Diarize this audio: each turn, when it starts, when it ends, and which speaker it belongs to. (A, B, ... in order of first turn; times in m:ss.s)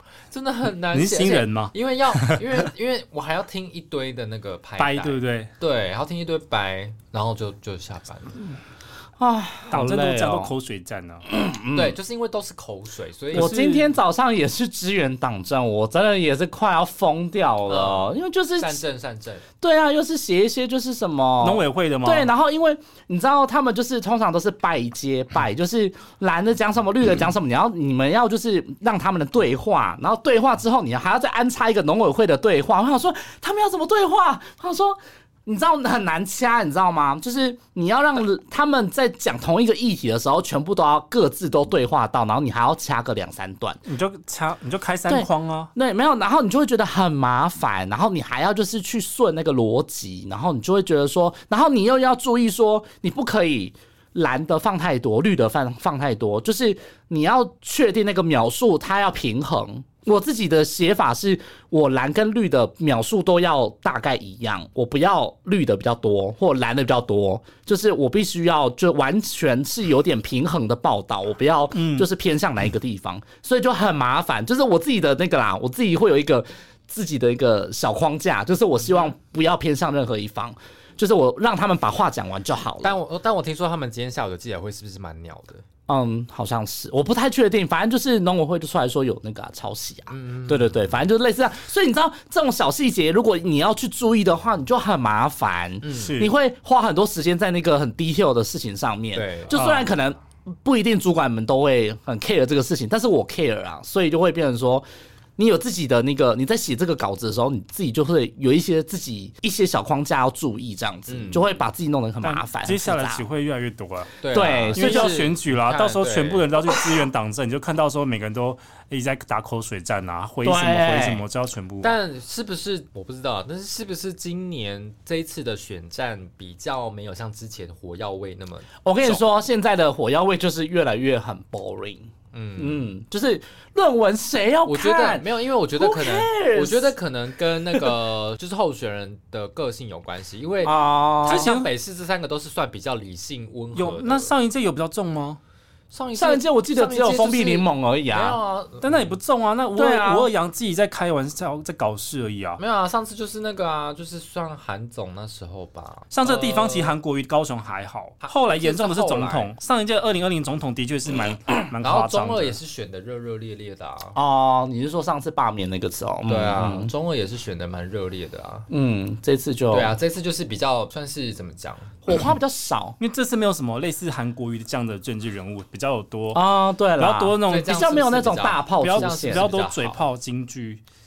0:00.3-0:08.5 A
0:00.9-0:02.4 B
0:04.8-0:05.5 B
0:09.2-0:10.5 C
0:09.7-0:11.2 B
0:11.3-0:12.0 C
0:11.7-0:13.6 A
0:13.3-0:18.8 C
0:13.3-0:13.9 B
0:17.7-0:19.4 A
0:19.6-0:43.8 C
0:21.4-0:22.3 B
0:43.8-0:45.7 B
0:45.1-1:23.0 C
1:11.7-1:12.1 B
1:22.8-1:25.6 A
1:25.9-1:44.8 C
1:30.1-1:31.0 A
1:35.8-1:36.2 A
1:36.0-1:36.3 B
1:39.1-1:39.6 A
1:39.5-1:39.9 B
1:45.4-1:53.2 C
1:51.1-1:51.6 A
1:52.2-2:02.0 B
1:54.2-1:56.6 A
1:54.3-1:55.2 C
2:00.4-2:01.2 C
2:01.8-2:09.2 A
2:08.8-2:17.0 C
2:12.3-2:12.9 A
2:14.6-2:24.3 A
2:20.6-2:21.5 C
2:21.2-2:21.7 B
2:23.7-2:25.4 B
2:25.9-2:29.2 A
2:26.1-2:28.4 C
2:28.8-2:32.6 B
2:29.7-2:30.3 C
2:32.6-2:37.0 A
2:36.1-2:42.6 B
2:38.2-2:39.5 A
2:41.8-2:44.2 A
2:44.1-2:46.9 C
2:46.3-2:48.7 A
2:48.7-2:49.9 C
2:49.7-2:52.0 A
2:52.0-2:53.0 C
2:53.0-2:56.4 B
2:56.3-2:59.5 C
2:57.0-2:57.7 B
2:57.5-3:00.0 A
2:58.8-3:00.8 B